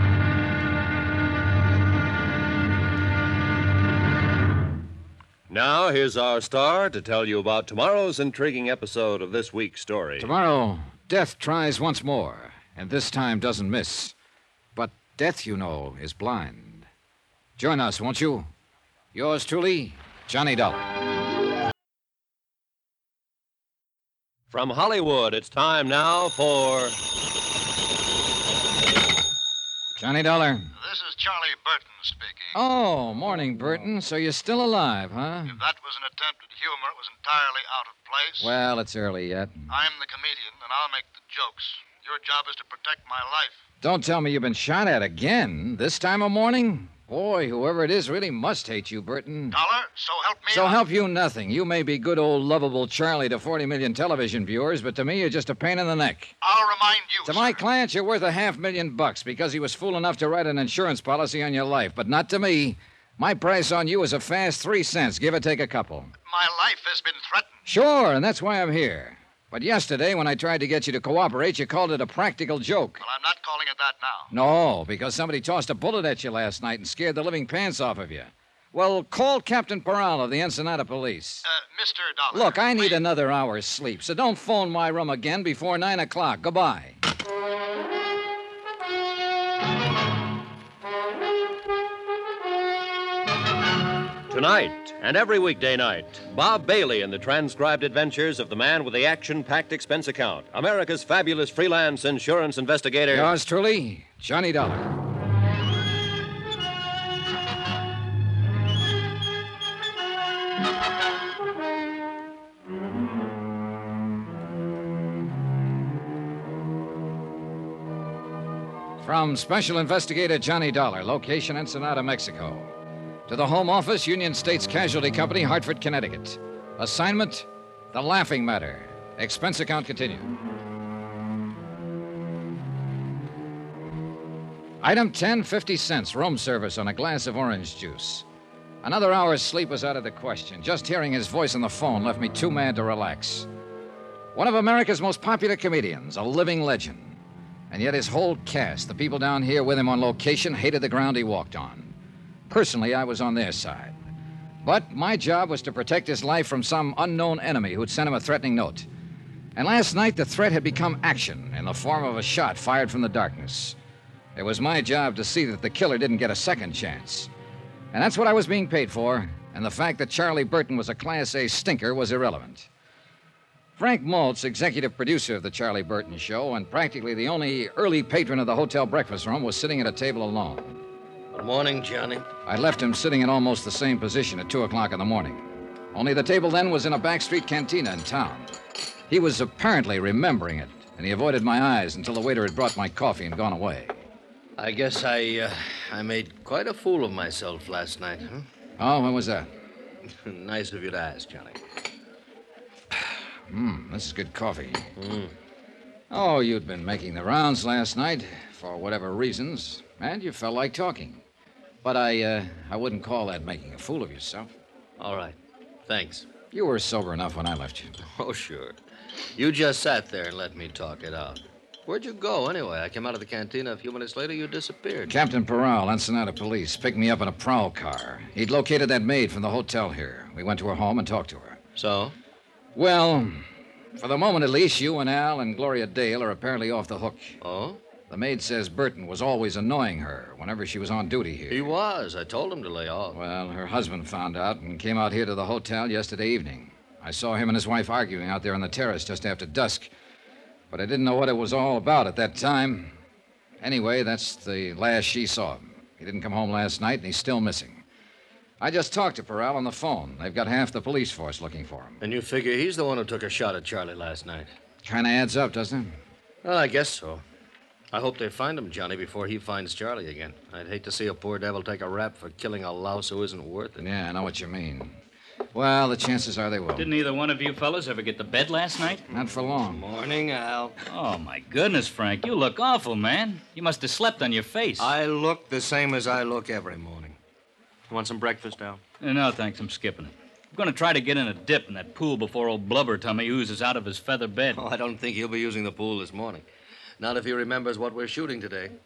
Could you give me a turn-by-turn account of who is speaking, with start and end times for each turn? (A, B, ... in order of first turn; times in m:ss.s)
0:05.5-0:10.3 A
0:10.2-0:14.1 B
0:14.8-0:16.9 B
0:17.6-0:18.5 B
0:19.1-0:20.9 B
0:24.5-0:27.0 A
0:30.0-0:30.7 B
0:30.8-0:32.6 C
0:32.5-0:35.6 B
0:35.5-0:38.5 C
0:38.4-0:39.6 B
0:39.7-0:43.6 C
0:43.8-0:49.6 B
0:49.5-0:50.8 C
0:50.5-0:56.4 B
0:56.4-0:57.6 C
0:57.2-1:06.1 B
1:06.3-1:07.5 C
1:07.7-1:13.0 B
1:13.0-1:14.3 C
1:14.3-1:21.4 B
1:21.5-1:23.0 C
1:22.3-1:27.0 B
1:34.3-1:43.3 A
1:43.1-1:44.9 B
1:59.0-2:02.7 B
2:03.3-2:10.3 B
2:14.8-2:18.2 B
2:18.8-2:23.5 B
2:24.4-2:27.2 B
2:27.7-2:31.9 B
2:32.5-2:34.0 B
2:34.6-2:38.9 B
2:39.6-2:43.8 B
2:44.4-2:47.3 B
2:47.9-2:52.7 B
2:53.8-3:00.8 B
3:01.3-3:02.3 D
3:02.5-3:08.5 B
3:09.1-3:14.0 B
3:14.6-3:18.5 D
3:18.8-3:19.5 B
3:20.1-3:21.6 D
3:22.9-3:24.9 B
3:25.0-3:25.3 D
3:26.1-3:31.2 B
3:31.8-3:34.5 B
3:35.0-3:36.3 D
3:36.5-3:38.0 B
3:38.1-3:38.8 D
3:39.4-3:45.1 D
3:45.1-3:51.6 B
3:51.8-3:52.2 D
3:52.8-3:53.4 B
3:54.0-3:57.4 B
3:57.4-3:57.8 D
3:58.1-4:01.7 B
4:01.5-4:03.2 D
4:03.1-4:09.9 B
4:10.7-4:12.9 B
4:13.6-4:17.8 B
4:18.6-4:22.0 B
4:22.0-4:24.5 D
4:24.8-4:26.0 B
4:26.4-4:27.2 D
4:27.9-4:33.8 D
4:33.8-4:35.0 B
4:35.5-4:36.9 B
4:36.8-4:39.0 E
4:39.1-4:39.8 B
4:39.6-4:40.8 D
4:40.9-4:44.9 E
4:44.8-4:47.2 D
4:47.9-4:48.8 D
4:49.0-4:54.6 E
4:54.5-4:56.5 D
4:57.0-4:58.7 D